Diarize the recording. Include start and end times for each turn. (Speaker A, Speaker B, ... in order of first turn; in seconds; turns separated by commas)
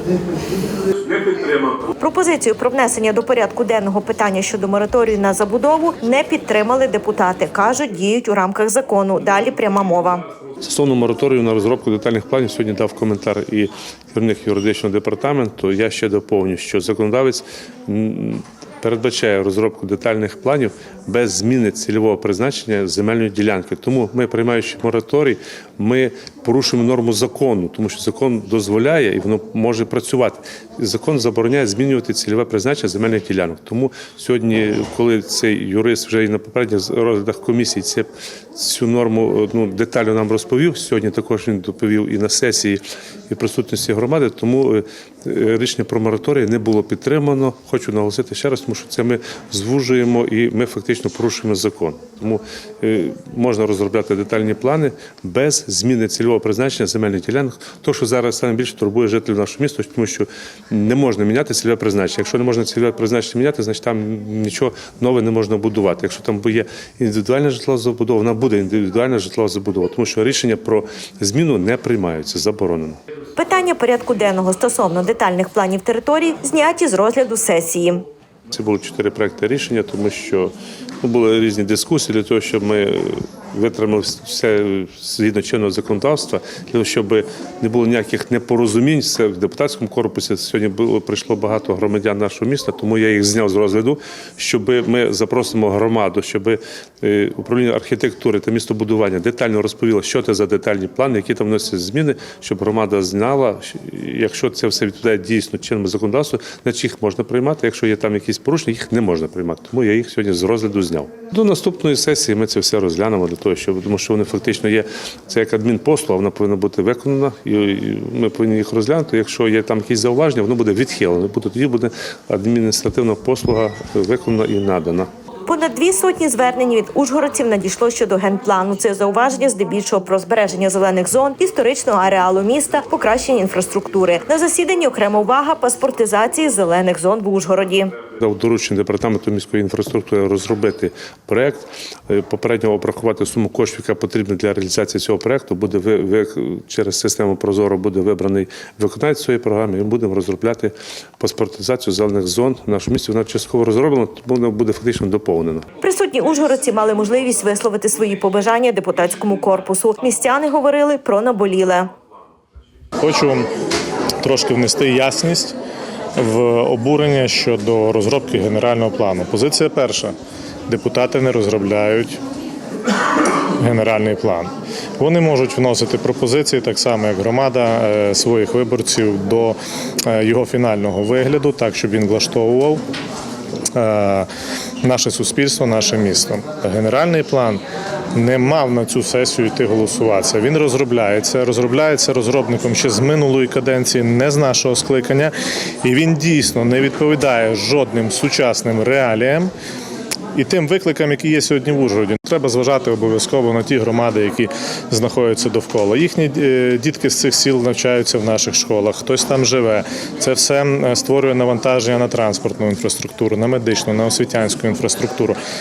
Speaker A: 1.2-1.5, Speaker B: 2.0-10.2, Speaker A: 10.6-73.0, Speaker B: 73.4-78.0, Speaker A: 78.5-125.1, Speaker B: 125.4-137.9, Speaker A: 138.2-155.7, Speaker B: 155.8-161.9, Speaker C: 163.0-163.4, Speaker C: 164.2-165.5, Speaker C: 166.2-170.1, Speaker C: 170.7-172.2, Speaker C: 173.6-182.8, Speaker C: 183.8-184.3, Speaker C: 184.8-187.6, Speaker C: 188.1-199.5, Speaker C: 200.3-215.4